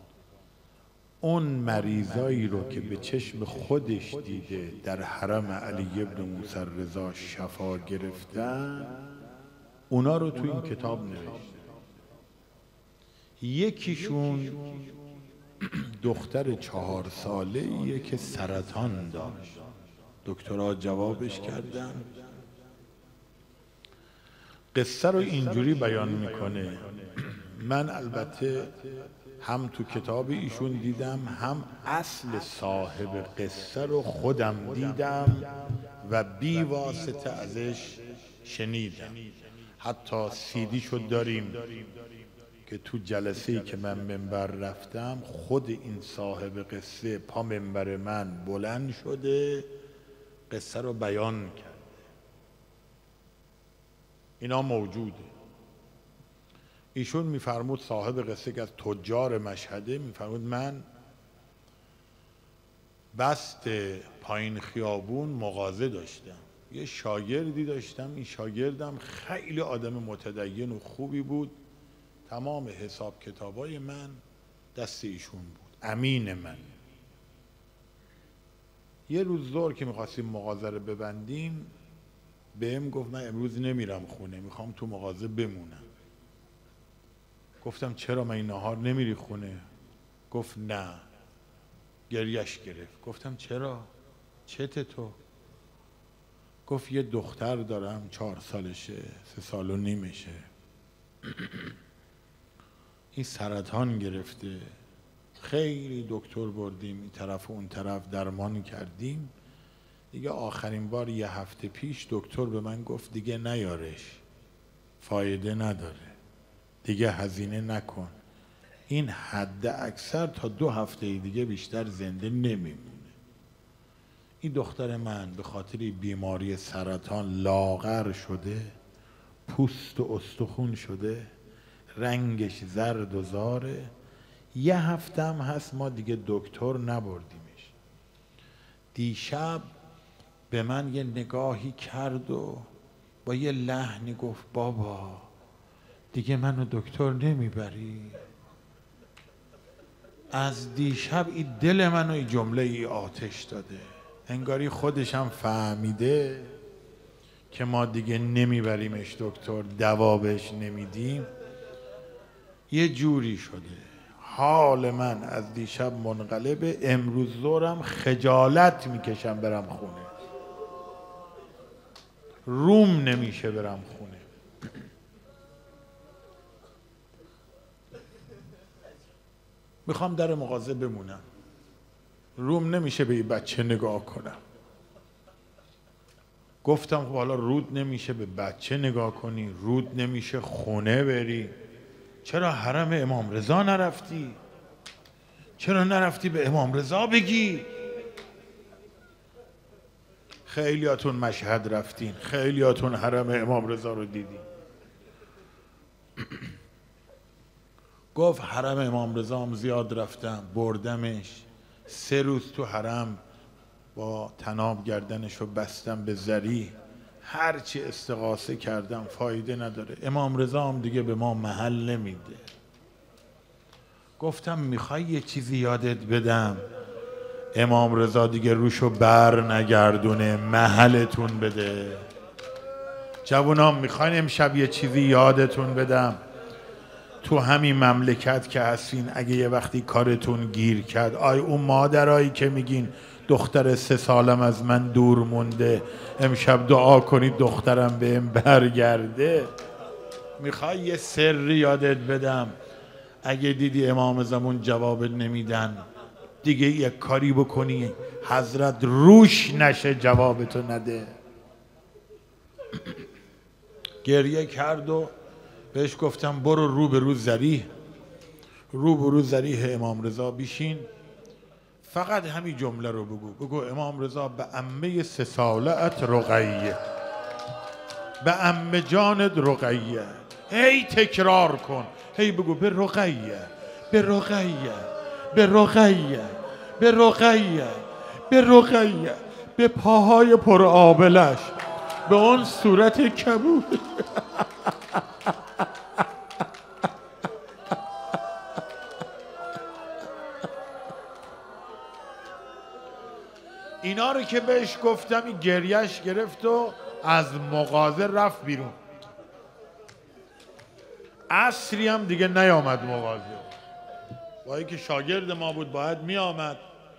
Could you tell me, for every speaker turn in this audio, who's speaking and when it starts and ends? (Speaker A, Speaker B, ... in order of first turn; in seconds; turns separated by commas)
Speaker A: 1.2-9.0, Speaker A: 9.9-11.5, Speaker A: 13.4-15.0, Speaker A: 15.6-19.6, Speaker A: 20.2-22.1, Speaker A: 24.7-28.8, Speaker A: 29.4-39.2, Speaker A: 39.8-41.9, Speaker A: 42.7-49.7, Speaker A: 50.5-52.0, Speaker A: 54.4-55.3, Speaker A: 56.9-60.9, Speaker A: 63.1-71.6, Speaker A: 72.3-74.2, Speaker A: 74.8-76.7, Speaker A: 79.1-81.7, Speaker A: 82.5-85.8, Speaker A: 87.6-89.7, Speaker A: 90.3-91.0, Speaker A: 92.1-93.9, Speaker A: 94.5-95.2, Speaker A: 96.7-100.5, Speaker A: 103.2-104.7, Speaker A: 105.4-109.3, Speaker A: 110.1-114.2, Speaker A: 115.0-116.2, Speaker A: 116.8-118.1, Speaker A: 118.9-123.1, Speaker A: 124.4-128.7, Speaker A: 129.5-131.3, Speaker A: 132.0-133.9, Speaker A: 134.5-137.7, Speaker A: 138.9-139.7, Speaker A: 140.5-142.7, Speaker A: 143.2-145.3, Speaker A: 146.1-148.2, Speaker A: 150.3-156.5, Speaker A: 157.5-161.3, Speaker A: 162.7-170.1, Speaker A: 172.5-174.2, Speaker A: 179.9-181.2, Speaker A: 182.4-184.4, Speaker A: 186.6-191.6, Speaker A: 192.2-194.4, Speaker A: 195.6-197.7, Speaker A: 200.5-204.4, Speaker A: 208.1-213.2, Speaker A: 213.9-222.4, Speaker A: 224.2-226.6, Speaker A: 227.5-232.1, Speaker A: 233.2-236.2, Speaker A: 237.2-249.5, Speaker A: 250.4-252.5, Speaker A: 253.2-255.8, Speaker A: 256.4-261.1, Speaker A: 264.0-265.1, Speaker A: 265.7-267.7, Speaker A: 268.7-270.9, Speaker A: 271.8-276.8, Speaker A: 278.2-291.6, Speaker A: 292.1-294.5, Speaker A: 303.8-308.8, Speaker A: 311.3-313.5, Speaker A: 314.4-316.6